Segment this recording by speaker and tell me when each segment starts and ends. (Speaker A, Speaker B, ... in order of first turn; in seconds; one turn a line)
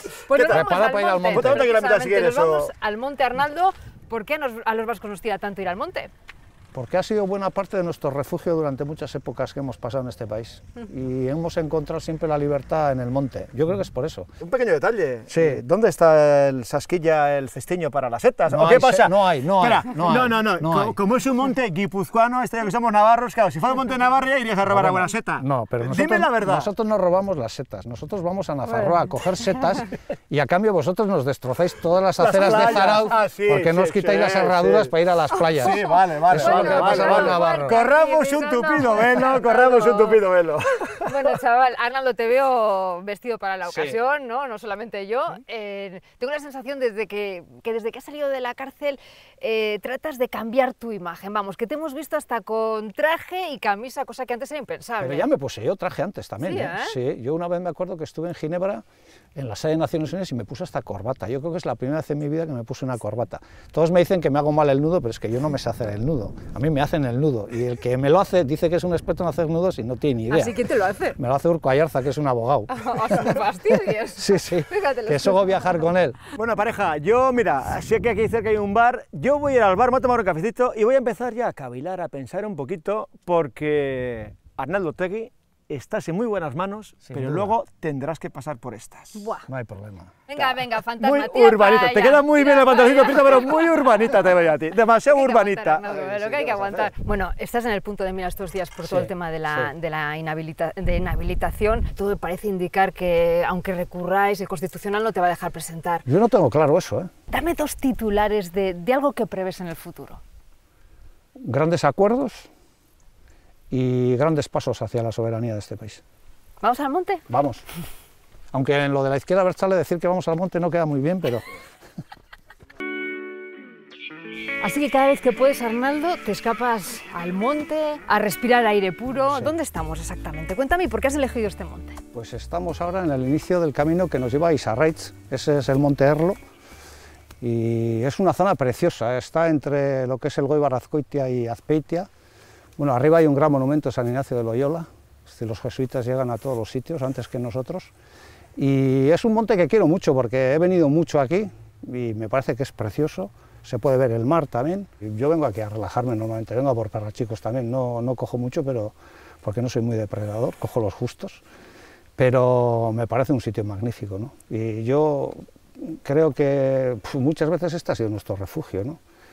Speaker A: 0.3-6.1
Speaker B: 0.3-0.7
Speaker C: 0.5-1.7
Speaker B: 1.3-2.7
Speaker C: 6.7-14.3
Speaker B: 14.4-26.7
Speaker C: 15.3-15.6
Speaker C: 18.5-21.0
Speaker C: 24.7-35.8
Speaker B: 32.2-41.1
Speaker A: 35.8-40.2
Speaker C: 36.3-37.8
Speaker A: 41.0-55.3
Speaker C: 43.6-44.0
Speaker C: 55.0-58.8
Speaker A: 56.4-57.0
Speaker C: 59.4-70.6
Speaker A: 70.3-71.2
Speaker C: 71.2-73.4
Speaker A: 72.7-75.8
Speaker C: 74.2-76.2
Speaker B: 76.3-89.3
Speaker C: 87.1-87.5
Speaker A: 89.2-89.5
Speaker C: 89.5-90.1
Speaker A: 90.3-94.1
Speaker B: 90.4-96.9
Speaker A: 95.1-106.1
Speaker C: 98.8-99.7
Speaker C: 106.1-107.1
Speaker A: 107.3-110.2
Speaker C: 111.4-112.5
Speaker C: 113.7-116.0
Speaker A: 116.6-117.2
Speaker C: 117.3-117.6
Speaker C: 118.5-121.4
Speaker A: 124.6-132.0
Speaker C: 129.3-129.6
Speaker C: 132.1-136.4
Speaker C: 137.4-142.1
Speaker C: 142.8-147.9
Speaker C: 148.6-161.4
Speaker C: 162.2-169.0